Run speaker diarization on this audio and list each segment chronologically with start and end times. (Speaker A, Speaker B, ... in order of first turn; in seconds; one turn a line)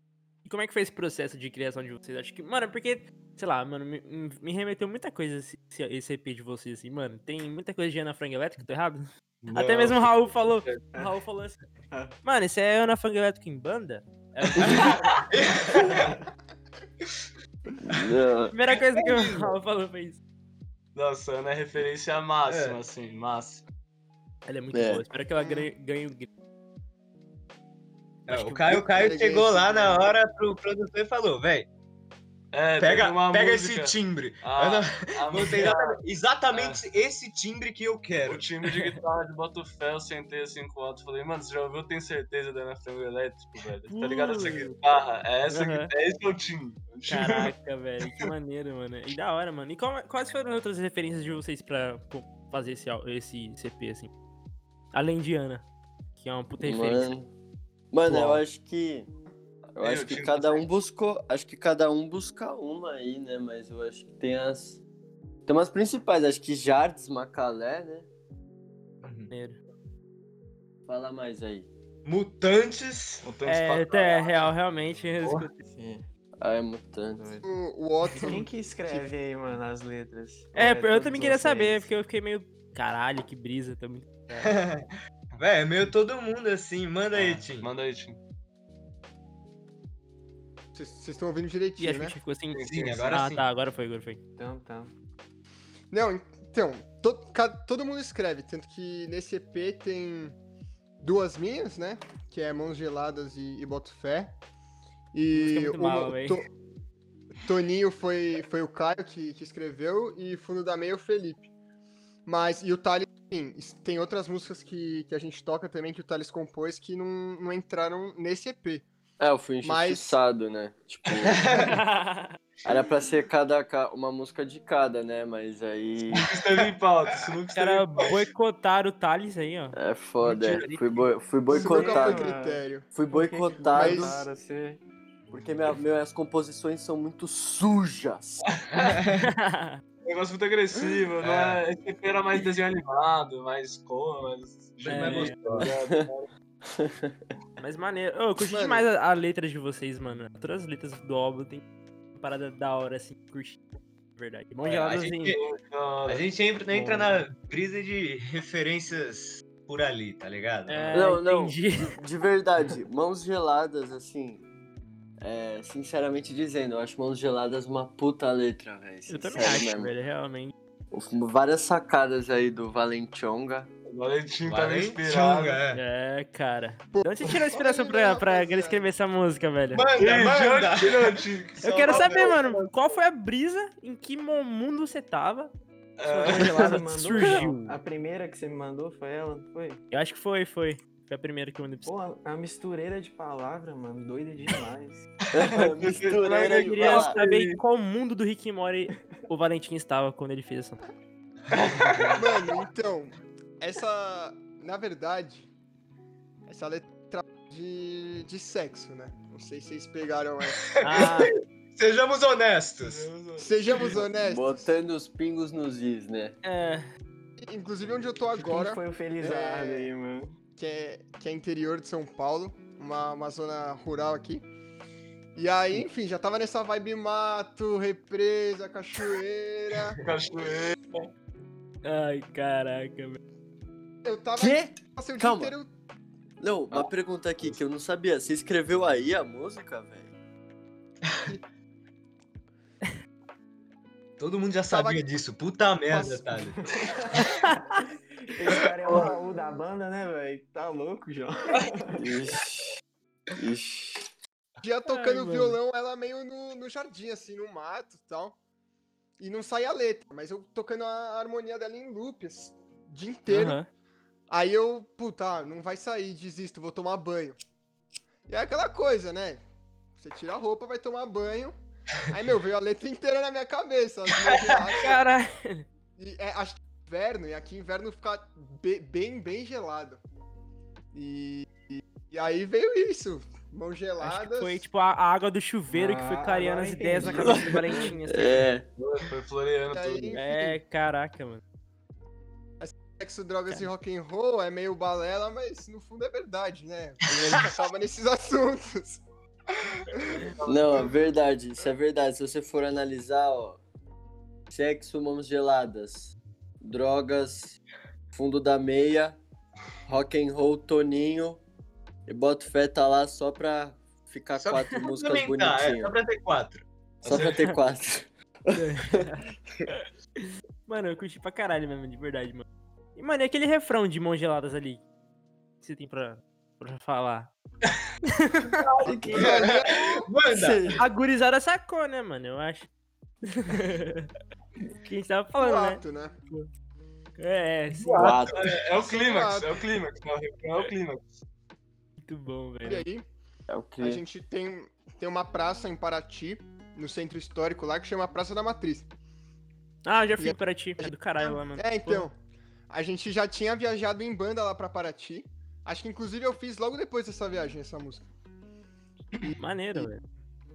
Speaker A: 0.5-11.6
Speaker B: 9.4-10.8
Speaker A: 12.2-15.3
Speaker C: 14.6-16.2
Speaker B: 14.7-15.1
Speaker D: 15.8-16.2
Speaker E: 17.8-18.5
Speaker A: 18.5-20.2
Speaker C: 18.7-19.6
Speaker B: 20.9-23.6
Speaker C: 22.5-22.8
Speaker A: 24.5-26.3
Speaker E: 24.7-25.0
Speaker F: 25.4-25.7
Speaker A: 28.3-28.8
Speaker C: 28.3-31.7
Speaker F: 28.7-30.1
Speaker B: 32.5-36.0
Speaker C: 32.8-38.4
Speaker B: 36.5-36.8
Speaker B: 38.2-47.5
Speaker A: 38.7-39.0
Speaker A: 43.9-44.8
Speaker A: 45.5-45.9
Speaker A: 47.1-54.1
Speaker A: 54.9-55.6
Speaker A: 56.2-57.1
Speaker E: 56.6-57.3
Speaker E: 57.9-59.1
Speaker A: 58.1-58.4
Speaker E: 59.8-64.8
Speaker B: 59.8-60.6
Speaker E: 65.5-68.1
Speaker C: 69.0-69.3
Speaker A: 69.3-69.6
Speaker E: 70.9-71.7
Speaker C: 72.0-73.2
Speaker B: 73.2-74.5
Speaker A: 73.5-75.6
Speaker B: 75.2-75.5
Speaker D: 75.7-76.0
Speaker E: 76.4-77.2
Speaker D: 77.2-77.5
Speaker F: 77.4-78.5
Speaker D: 78.1-81.9
Speaker A: 80.5-84.5
Speaker C: 84.3-87.7
Speaker B: 87.1-88.2
Speaker F: 90.8-92.2
Speaker A: 91.8-94.2
Speaker B: 92.5-93.2
Speaker C: 92.6-93.5
Speaker D: 94.4-94.9
Speaker F: 95.9-100.3
Speaker F: 101.0-104.3
Speaker F: 105.1-106.5
Speaker A: 105.3-106.4
Speaker F: 107.4-111.5
Speaker F: 112.3-118.9
Speaker E: 119.2-121.5
Speaker F: 119.6-120.2
Speaker C: 121.2-121.8
Speaker A: 121.6-122.4
Speaker E: 122.7-126.3
Speaker B: 126.1-128.0
Speaker C: 126.5-127.2
Speaker A: 127.6-129.8
Speaker E: 129.8-132.3
Speaker B: 130.2-131.1
Speaker D: 131.5-134.8
Speaker F: 131.5-132.9
Speaker E: 132.9-134.2
Speaker F: 133.7-134.2
Speaker E: 135.3-138.5
Speaker B: 138.5-139.0
Speaker C: 138.8-139.3
Speaker A: 139.2-139.8
Speaker B: 140.0-146.3
Speaker C: 141.2-141.6
Speaker C: 144.8-145.7
Speaker A: 144.8-145.4
Speaker E: 145.6-146.1
Speaker E: 146.7-147.2
Speaker A: 147.6-151.6
Speaker F: 148.4-148.9
Speaker A: 152.2-153.6
Speaker A: 154.2-155.4
Speaker C: 154.7-155.4
Speaker B: 155.2-157.0
Speaker C: 156.1-161.1
Speaker A: 160.7-162.0
Speaker E: 160.9-164.4
Speaker E: 165.2-169.9
Speaker A: 169.1-170.5
Speaker E: 170.9-173.7
Speaker B: 173.9-175.6
Speaker C: 174.4-175.8
Speaker A: 175.7-179.8
Speaker F: 176.9-178.9
Speaker C: 179.7-182.7
Speaker B: 180.0-182.1
Speaker A: 181.6-187.8
Speaker B: 186.0-186.6
Speaker D: 186.3-189.8
Speaker A: 189.9-191.9
Speaker D: 191.8-195.1
Speaker E: 195.3-197.2
Speaker C: 195.4-196.0
Speaker B: 196.0-197.6
Speaker A: 196.2-200.8
Speaker B: 201.7-202.2
Speaker F: 202.2-205.5
Speaker F: 206.5-210.8
Speaker C: 210.6-213.1
Speaker A: 210.8-211.3
Speaker B: 212.8-213.8
Speaker F: 213.4-214.7
Speaker E: 214.1-216.4
Speaker A: 216.4-216.9
Speaker F: 217.4-219.9
Speaker D: 218.3-220.3
Speaker F: 220.6-224.4
Speaker F: 225.4-230.0
Speaker B: 230.0-231.1
Speaker A: 231.8-233.2
Speaker F: 234.1-235.7
Speaker E: 234.4-235.6
Speaker E: 236.4-240.1
Speaker C: 244.2-246.6
Speaker F: 244.7-245.0
Speaker F: 245.9-246.6
Speaker D: 246.7-247.1
Speaker A: 247.2-247.8
Speaker D: 248.3-252.2
Speaker E: 252.0-252.7
Speaker E: 253.4-254.1
Speaker F: 254.6-258.4
Speaker A: 254.8-255.6
Speaker F: 259.2-263.6
Speaker A: 263.3-263.7
Speaker F: 264.3-267.4
Speaker F: 268.3-269.4
Speaker F: 270.0-271.6
Speaker F: 272.1-275.0
Speaker C: 274.2-274.7
Speaker A: 274.7-275.7
Speaker F: 276.0-280.0
Speaker F: 280.9-284.6
Speaker A: 284.0-288.5
Speaker D: 285.7-287.9
Speaker B: 287.2-287.6
Speaker E: 288.1-288.6
Speaker B: 288.8-290.2
Speaker F: 289.7-290.6
Speaker A: 290.1-291.4
Speaker F: 292.6-299.0
Speaker A: 297.1-297.4
Speaker F: 299.6-300.3
Speaker B: 300.2-300.9
Speaker E: 300.4-303.6
Speaker E: 304.5-307.6
Speaker E: 308.1-309.2
Speaker E: 309.9-311.4
Speaker E: 312.1-315.9
Speaker C: 314.4-316.6
Speaker E: 317.0-319.6
Speaker B: 317.0-317.5
Speaker A: 317.1-317.6
Speaker A: 318.5-319.9
Speaker A: 320.7-322.4
Speaker A: 323.0-324.8
Speaker A: 325.6-327.3
Speaker A: 328.0-328.6
Speaker B: 328.6-329.0
Speaker E: 328.8-329.4
Speaker F: 329.0-330.1
Speaker C: 329.1-330.8
Speaker E: 330.3-330.8
Speaker A: 330.8-332.7
Speaker A: 333.2-334.1
Speaker A: 334.8-336.5
Speaker F: 335.4-336.2
Speaker A: 337.2-338.2
Speaker B: 337.9-341.1
Speaker E: 337.9-338.4
Speaker C: 337.9-338.6
Speaker F: 338.7-339.5
Speaker A: 342.0-342.9
Speaker F: 342.6-343.1
Speaker E: 343.5-344.0
Speaker F: 343.8-348.9
Speaker A: 349.9-352.1
Speaker F: 350.2-352.2
Speaker F: 352.7-358.1
Speaker F: 359.2-359.9
Speaker A: 359.4-360.0